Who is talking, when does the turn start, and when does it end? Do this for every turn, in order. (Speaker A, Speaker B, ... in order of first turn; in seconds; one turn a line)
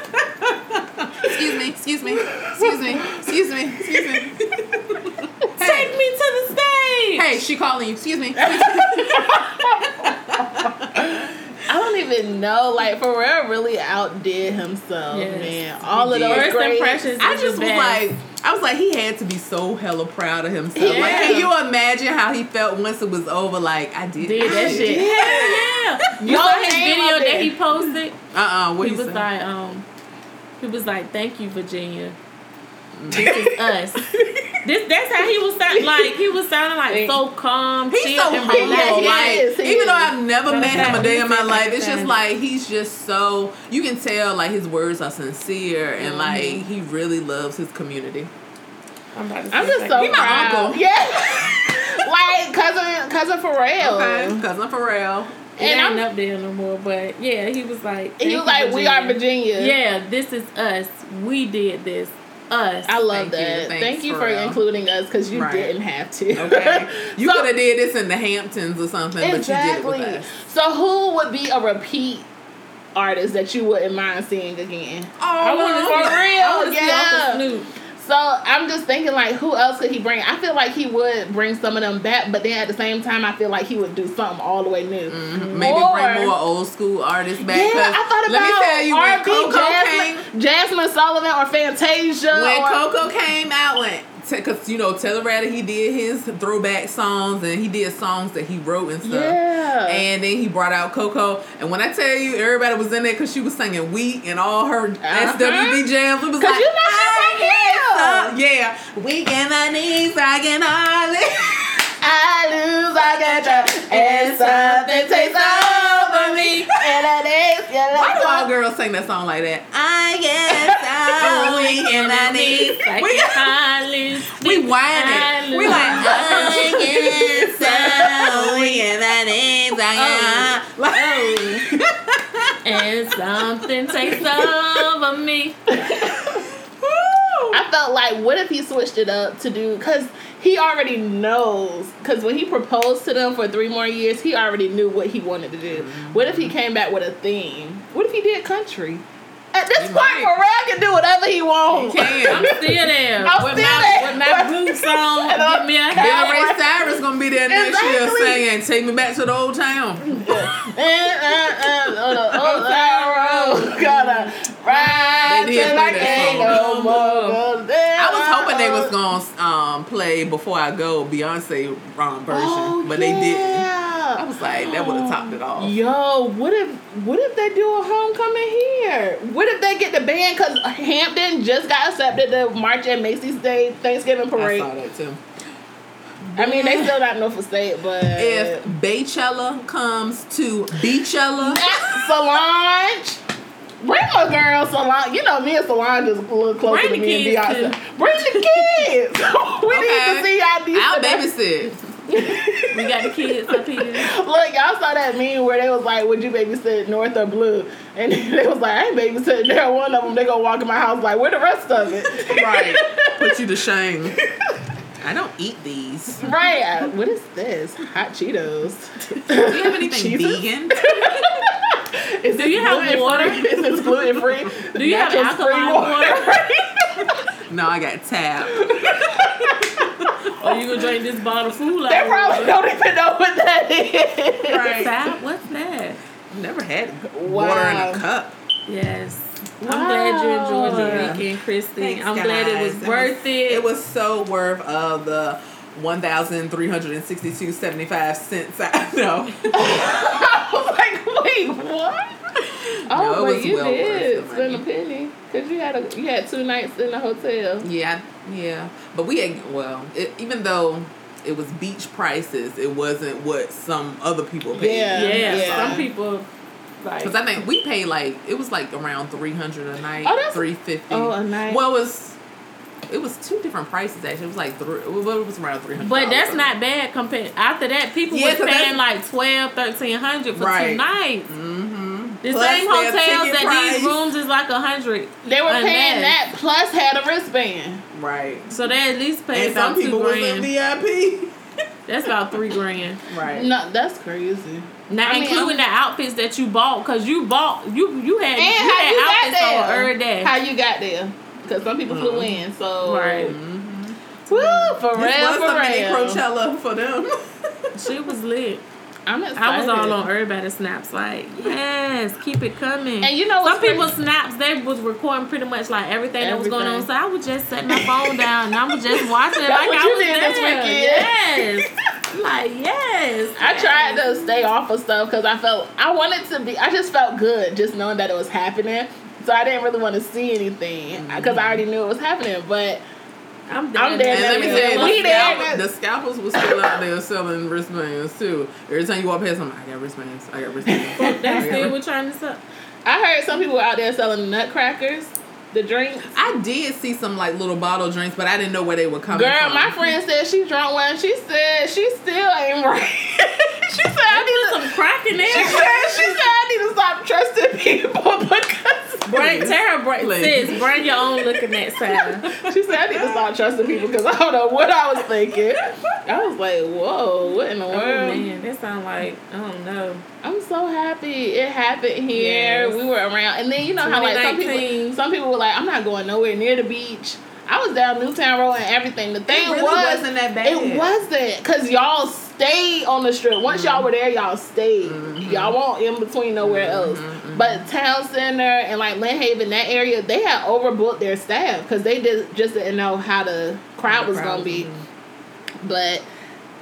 Speaker A: 0.4-5.9
Speaker B: 2.1-3.2
Speaker B: 3.9-4.3
Speaker C: 5.6-7.3
Speaker A: 7.2-11.3
Speaker B: 8.4-17.1
Speaker C: 15.1-15.6
Speaker A: 15.9-16.5
Speaker C: 16.3-18.0
Speaker A: 17.2-25.6
Speaker B: 20.8-21.5
Speaker C: 20.8-21.5
Speaker C: 24.2-28.2
Speaker B: 24.4-27.6
Speaker A: 28.3-29.2
Speaker C: 28.8-29.9
Speaker C: 30.6-32.2
Speaker A: 33.0-33.3
Speaker C: 33.1-34.1
Speaker B: 33.1-34.6
Speaker C: 34.6-39.4
Speaker B: 35.7-36.2
Speaker B: 36.9-37.2
Speaker A: 37.9-48.3
Speaker B: 38.4-40.2
Speaker C: 40.5-42.2
Speaker B: 46.0-46.6
Speaker C: 46.3-46.5
Speaker C: 49.1-50.6
Speaker B: 49.5-54.4
Speaker A: 50.0-50.9
Speaker A: 53.8-55.4
Speaker B: 55.6-56.0
Speaker C: 55.6-63.0
Speaker B: 58.2-59.8
Speaker B: 62.9-67.5
Speaker A: 63.1-64.6
Speaker A: 65.3-65.7
Speaker A: 66.3-70.3
Speaker B: 69.2-72.3
Speaker B: 73.0-77.4
Speaker A: 75.2-76.2
Speaker C: 75.4-77.7
Speaker B: 78.0-86.3
Speaker A: 85.1-90.3
Speaker B: 87.4-92.8
Speaker A: 92.3-111.8
Speaker B: 99.0-100.1
Speaker B: 105.0-108.3
Speaker B: 112.0-118.5
Speaker A: 113.4-116.8
Speaker C: 114.4-114.8
Speaker A: 117.9-123.5
Speaker B: 120.5-121.4
Speaker C: 121.2-128.5
Speaker A: 124.4-132.6
Speaker B: 125.6-128.8
Speaker B: 129.9-131.7
Speaker C: 132.6-135.6
Speaker B: 135.7-136.4
Speaker A: 136.3-137.6
Speaker B: 137.5-158.4
Speaker A: 145.7-146.5
Speaker A: 149.8-150.3
Speaker A: 151.7-152.5
Speaker C: 152.3-156.5
Speaker A: 155.9-160.3
Speaker B: 160.2-168.9
Speaker A: 161.5-162.8
Speaker C: 163.0-167.4
Speaker A: 165.2-167.3
Speaker A: 168.0-175.8
Speaker B: 172.3-184.7
Speaker A: 184.3-185.2
Speaker A: 186.3-187.0
Speaker B: 186.4-188.7
Speaker A: 188.2-191.9
Speaker B: 191.4-193.2
Speaker B: 193.8-201.3
Speaker C: 196.7-197.8
Speaker A: 199.7-202.4
Speaker B: 202.1-203.1
Speaker C: 202.7-204.1
Speaker B: 204.0-213.3
Speaker A: 212.2-214.2
Speaker B: 214.2-214.5
Speaker A: 215.0-216.3
Speaker B: 216.2-227.3
Speaker A: 219.4-220.9
Speaker C: 222.3-223.6
Speaker C: 224.8-226.3
Speaker A: 227.5-230.4
Speaker B: 228.5-230.1
Speaker C: 230.4-232.6
Speaker B: 231.9-234.9
Speaker A: 234.5-234.9
Speaker C: 234.8-236.0
Speaker A: 236.3-238.3
Speaker B: 237.1-238.0
Speaker C: 238.7-243.7
Speaker B: 239.6-241.2
Speaker A: 240.6-241.2
Speaker A: 241.8-249.7
Speaker B: 249.5-252.2
Speaker B: 252.9-257.7
Speaker A: 252.9-254.7
Speaker A: 257.6-265.9
Speaker B: 264.5-265.9
Speaker C: 264.9-266.3
Speaker C: 266.8-267.2
Speaker A: 267.0-272.2
Speaker B: 270.0-271.6
Speaker A: 272.9-276.5
Speaker C: 275.8-281.3
Speaker A: 278.1-278.8
Speaker A: 280.4-284.0
Speaker C: 282.2-286.2
Speaker B: 285.2-287.8
Speaker A: 287.9-288.5
Speaker C: 288.5-290.5
Speaker A: 289.3-291.4
Speaker C: 291.9-293.0
Speaker A: 293.1-293.5
Speaker B: 293.3-295.7
Speaker C: 294.9-300.3
Speaker B: 298.4-303.4
Speaker A: 301.9-302.4
Speaker C: 302.8-303.4
Speaker A: 303.2-307.1
Speaker B: 304.3-306.2
Speaker C: 307.8-308.6
Speaker B: 309.1-310.0
Speaker C: 309.4-324.5
Speaker B: 313.0-313.9
Speaker B: 316.2-316.9
Speaker B: 317.7-321.6
Speaker B: 323.4-332.8
Speaker A: 330.9-331.6
Speaker C: 333.5-335.5
Speaker B: 333.8-335.6
Speaker A: 334.1-341.7
Speaker B: 336.3-336.6
Speaker B: 340.7-341.7
Speaker C: 341.0-342.4
Speaker B: 342.9-346.1
Speaker A: 346.1-349.8
Speaker B: 349.1-359.2
Speaker C: 354.1-355.7
Speaker A: 355.4-356.2
Speaker C: 359.1-362.2
Speaker A: 359.1-360.9
Speaker A: 362.2-363.3
Speaker B: 362.4-368.3
Speaker A: 365.3-366.1
Speaker C: 367.7-370.0
Speaker B: 370.2-394.7
Speaker C: 372.1-372.8
Speaker C: 373.8-374.9
Speaker A: 379.3-381.0
Speaker A: 383.5-383.9
Speaker A: 384.8-385.6
Speaker A: 386.4-387.7
Speaker A: 393.9-394.9
Speaker B: 395.6-396.1